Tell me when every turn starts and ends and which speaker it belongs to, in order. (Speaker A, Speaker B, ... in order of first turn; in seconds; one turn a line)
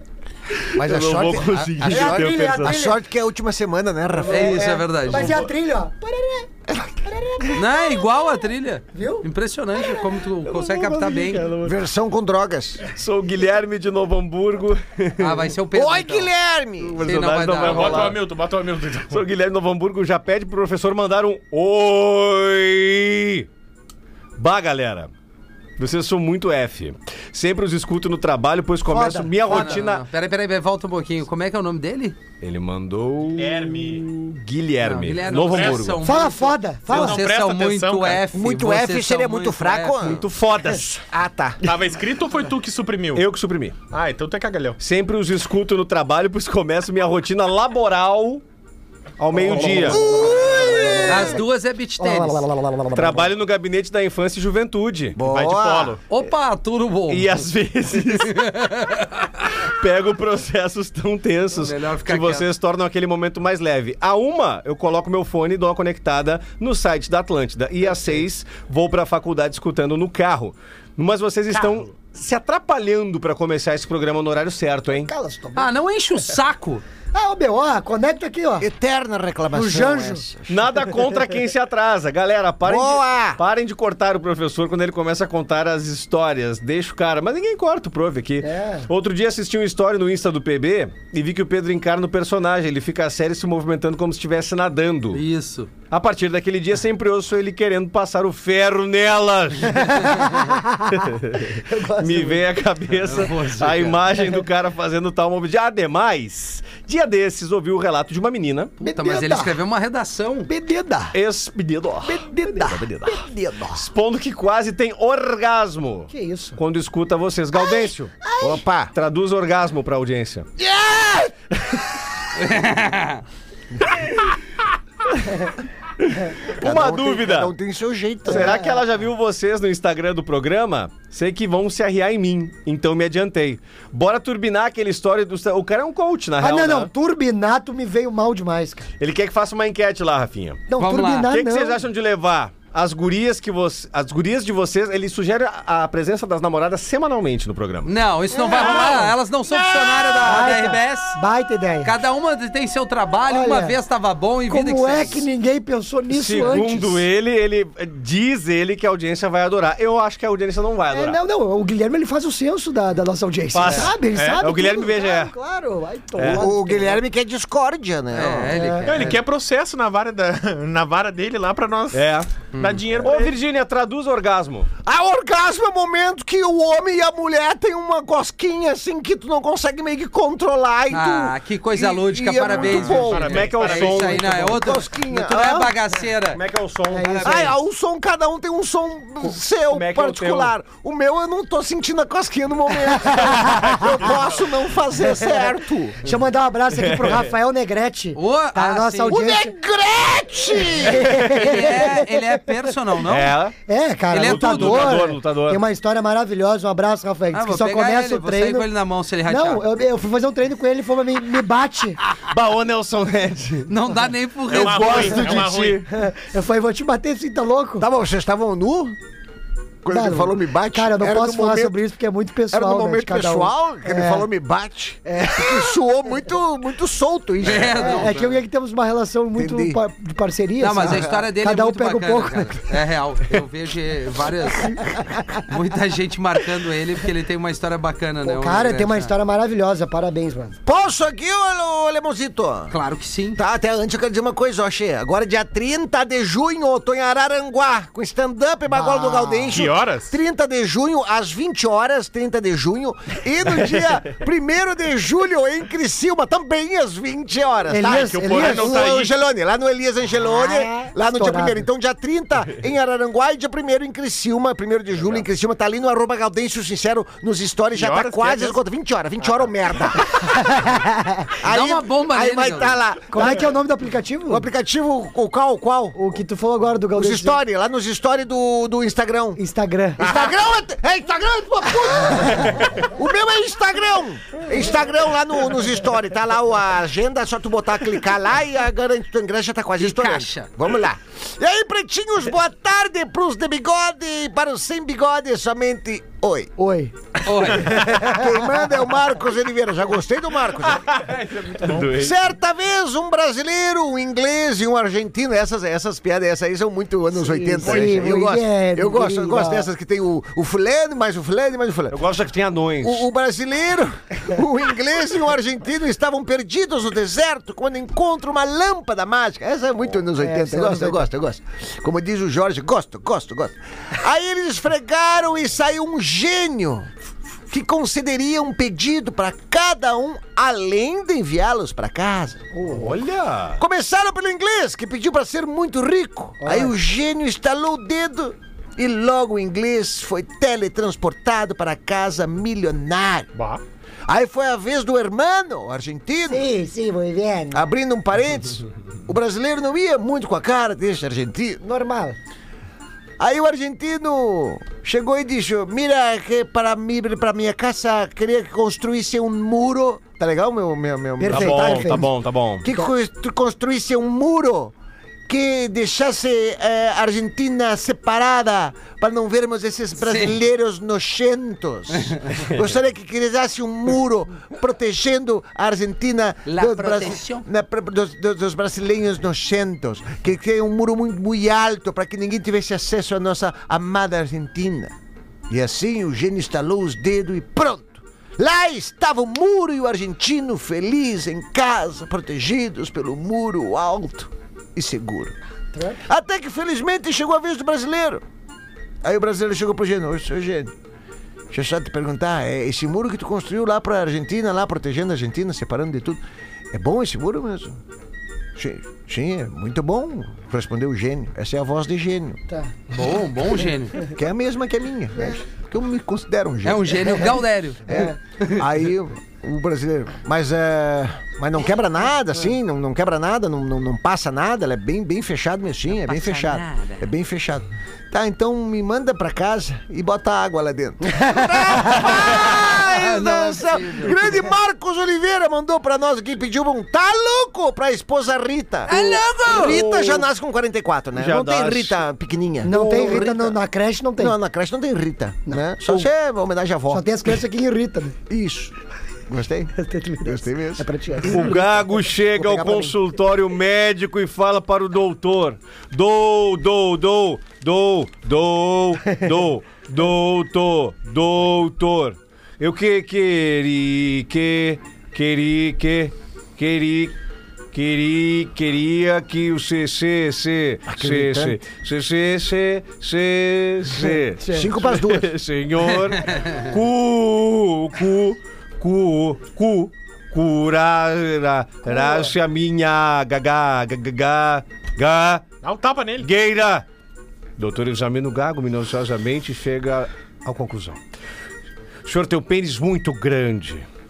Speaker A: 0.7-2.8
Speaker B: 0.8-4.8
Speaker C: 1.8-3.0
Speaker C: 4.2-6.5
Speaker D: 4.3-5.4
Speaker B: 6.7-7.6
Speaker C: 7.0-8.0
Speaker D: 7.5-11.5
Speaker C: 8.9-9.3
Speaker A: 10.4-11.8
Speaker B: 11.6-12.8
Speaker A: 12.9-15.5
Speaker D: 15.2-16.3
Speaker B: 15.7-17.0
Speaker A: 16.8-18.2
Speaker D: 17.0-18.1
Speaker E: 17.6-19.2
Speaker A: 19.1-23.5
Speaker A: 24.4-25.1
Speaker A: 25.8-30.1
Speaker C: 28.9-29.8
Speaker D: 29.4-32.2
Speaker A: 32.4-36.0
Speaker E: 33.4-34.0
Speaker D: 34.8-40.2
Speaker E: 35.5-35.8
Speaker C: 36.0-37.2
Speaker E: 36.9-38.3
Speaker B: 38.3-40.3
Speaker A: 40.0-41.0
Speaker B: 41.1-41.6
Speaker E: 41.6-43.3
Speaker A: 43.1-43.8
Speaker E: 43.9-44.8
Speaker A: 44.8-48.4
Speaker A: 49.2-50.0
Speaker B: 49.4-51.4
Speaker C: 49.4-51.4
Speaker D: 51.1-52.5
Speaker C: 52.0-53.3
Speaker A: 52.9-55.2
Speaker B: 55.2-56.0
Speaker E: 55.2-56.0
Speaker D: 56.1-59.3
Speaker A: 57.1-58.6
Speaker A: 59.6-75.1
Speaker D: 61.5-62.5
Speaker C: 75.0-75.7
Speaker D: 75.5-76.8
Speaker C: 77.1-78.7
Speaker B: 78.6-80.7
Speaker C: 79.5-80.3
Speaker A: 80.5-95.2
Speaker B: 82.6-83.4
Speaker C: 88.4-88.9
Speaker D: 95.1-95.7
Speaker A: 95.9-100.2
Speaker C: 99.7-102.4
Speaker A: 100.9-108.7
Speaker D: 103.0-104.0
Speaker D: 108.8-110.5
Speaker C: 108.8-109.6
Speaker C: 110.5-111.2
Speaker A: 111.1-113.2
Speaker C: 112.0-113.8
Speaker B: 112.7-113.2
Speaker A: 113.7-118.1
Speaker C: 116.1-116.6
Speaker C: 117.5-118.6
Speaker B: 118.4-118.9
Speaker A: 118.9-120.5
Speaker B: 120.6-121.3
Speaker D: 122.4-123.2
Speaker A: 126.0-127.5
Speaker B: 126.6-128.6
Speaker C: 128.3-128.8
Speaker A: 128.3-136.9
Speaker C: 136.4-138.9
Speaker A: 139.0-140.7
Speaker C: 140.7-141.8
Speaker D: 140.8-141.3
Speaker A: 141.2-147.9
Speaker D: 147.8-151.2
Speaker C: 148.3-149.1
Speaker A: 148.7-148.9
Speaker B: 149.8-150.2
Speaker C: 150.2-152.0
Speaker D: 151.8-155.2
Speaker C: 153.3-153.8
Speaker C: 154.5-157.0
Speaker A: 156.1-161.2
Speaker C: 160.9-167.0
Speaker A: 163.5-165.3
Speaker E: 164.2-164.4
Speaker A: 166.2-166.5
Speaker B: 166.3-168.6
Speaker D: 168.1-169.2
Speaker C: 168.5-169.1
Speaker E: 168.9-173.3
Speaker A: 171.9-172.3
Speaker D: 172.5-172.8
Speaker A: 173.0-174.7
Speaker B: 174.8-183.5
Speaker D: 180.9-186.4
Speaker E: 182.5-184.2
Speaker A: 183.2-184.7
Speaker B: 184.3-185.7
Speaker A: 186.3-187.3
Speaker C: 186.9-187.5
Speaker D: 187.0-187.5
Speaker B: 187.2-196.0
Speaker A: 189.7-190.5
Speaker C: 193.1-194.1
Speaker C: 195.0-199.6
Speaker A: 196.8-197.3
Speaker D: 198.2-199.2
Speaker B: 199.1-201.1
Speaker C: 200.8-202.5
Speaker A: 201.1-201.5
Speaker D: 201.2-203.4
Speaker A: 203.1-203.6
Speaker C: 203.7-208.7
Speaker D: 204.1-205.1
Speaker A: 204.2-205.6
Speaker D: 207.3-209.6
Speaker C: 209.2-212.0
Speaker A: 212.2-213.7
Speaker D: 213.7-215.4
Speaker A: 214.5-215.9
Speaker E: 214.5-215.9
Speaker C: 215.9-217.9
Speaker B: 217.8-219.0
Speaker B: 219.8-221.8
Speaker C: 219.9-224.3
Speaker B: 222.5-228.0
Speaker C: 225.1-225.8
Speaker D: 227.4-228.4
Speaker C: 227.7-232.8
Speaker B: 229.4-229.8
Speaker D: 230.6-234.8
Speaker B: 230.8-231.2
Speaker D: 235.5-239.1
Speaker C: 238.2-240.6
Speaker B: 240.7-242.7
Speaker D: 242.7-243.4
Speaker B: 243.4-270.4
Speaker C: 248.7-249.7
Speaker E: 249.5-250.2
Speaker C: 257.7-259.0
Speaker E: 257.8-259.1
Speaker C: 260.2-261.7
Speaker E: 267.7-268.6
Speaker C: 270.2-271.3
Speaker B: 271.4-273.5
Speaker D: 271.4-272.8
Speaker C: 273.1-274.5
Speaker B: 274.3-276.0
Speaker C: 275.9-277.4
Speaker B: 277.0-279.4
Speaker C: 279.4-280.1
Speaker B: 280.0-296.5
Speaker D: 289.8-290.5
Speaker C: 296.6-296.9
Speaker D: 297.2-298.2
Speaker B: 297.6-301.0
Speaker E: 300.6-301.9
Speaker A: 301.6-302.2
Speaker B: 301.8-312.0
Speaker C: 307.2-309.7
Speaker A: 311.9-313.1
Speaker B: 312.8-326.9
Speaker C: 320.2-321.1
Speaker B: 327.5-332.5
Speaker C: 332.6-332.9
Speaker A: 332.7-333.6
Speaker B: 333.6-343.3
Speaker C: 336.4-336.8
Speaker E: 343.4-343.6
Speaker B: 344.1-346.4
Speaker C: 346.3-347.6
Speaker B: 347.5-351.6
Speaker C: 351.6-352.2
Speaker B: 353.2-364.7
Speaker C: 361.2-362.1
Speaker A: 361.3-362.6
Speaker B: 365.3-384.9
Speaker D: 370.0-370.4
Speaker D: 376.4-377.5
Speaker B: 385.5-395.4
Speaker C: 395.7-396.0
Speaker B: 396.1-398.2
Speaker B: 399.0-400.7
Speaker B: 401.5-406.2
Speaker B: 406.7-407.8
Speaker B: 408.6-412.4
Speaker D: 412.9-414.1
Speaker B: 414.1-443.5
Speaker D: 416.6-418.6
Speaker D: 425.9-427.1
Speaker C: 431.0-432.2
Speaker D: 432.1-434.3
Speaker D: 438.9-439.9
Speaker A: 439.5-440.3
Speaker A: 441.1-442.0
Speaker C: 442.6-444.4
Speaker A: 442.7-443.3
Speaker B: 444.2-447.1
Speaker C: 445.5-446.1
Speaker C: 446.9-448.2
Speaker B: 448.3-448.7
Speaker B: 449.3-449.7
Speaker C: 449.8-451.6
Speaker B: 450.2-451.7
Speaker A: 451.3-467.2
Speaker B: 452.3-453.0
Speaker A: 467.7-485.4
Speaker B: 470.9-471.6
Speaker C: 474.4-474.8
Speaker B: 474.5-475.3
Speaker D: 476.2-476.7
Speaker C: 481.9-482.3
Speaker E: 485.6-486.3
Speaker A: 486.2-486.9
Speaker A: 487.6-491.0
Speaker A: 492.1-493.9